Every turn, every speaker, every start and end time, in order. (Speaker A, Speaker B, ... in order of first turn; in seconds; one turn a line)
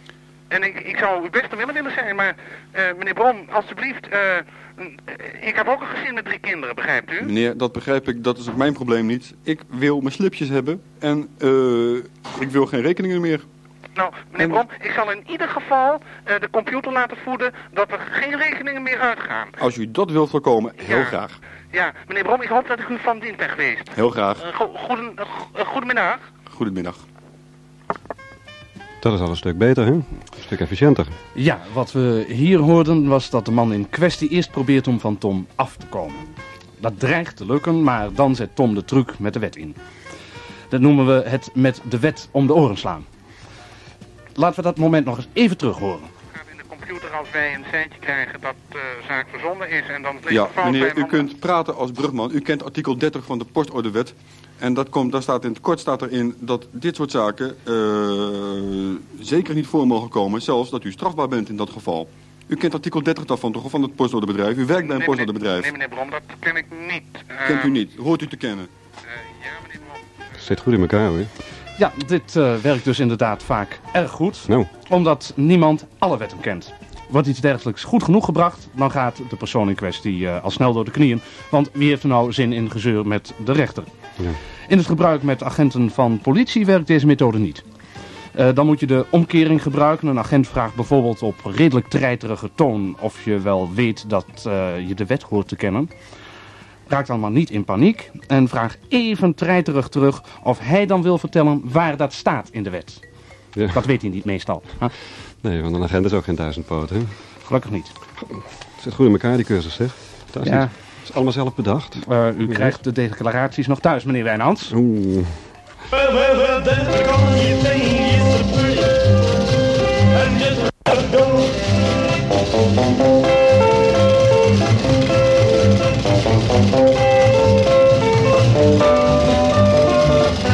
Speaker A: 0.5-7.3
Speaker B: 7.2-13.4
Speaker A: 14.0-19.6
Speaker B: 19.6-21.4
Speaker A: 20.8-21.2
Speaker A: 21.7-26.2
Speaker B: 23.9-24.4
Speaker B: 26.5-27.0
Speaker C: 29.0-31.1
Speaker D: 31.4-36.3
Speaker D: 36.8-39.8
Speaker D: 40.7-43.1
Speaker D: 44.4-46.1
Speaker A: 46.3-51.3
Speaker B: 50.3-65.7
Speaker A: 64.8-67.8
Speaker B: 67.4-68.7
Speaker A: 69.1-70.0
Speaker C: 70.4-71.3
Speaker D: 71.8-83.9
Speaker D: 84.7-87.6
Speaker D: 88.3-95.9
Speaker D: 96.9-103.0
Speaker D: 103.7-104.9
Speaker C: 105.4-107.1
Speaker D: 107.5-107.9
Speaker C: 108.8-112.0
Speaker D: 110.4-110.7
Speaker D: 112.0-114.8
Speaker C: 114.7-115.3
Speaker E: 115.9-119.0
Speaker E: 120.1-121.6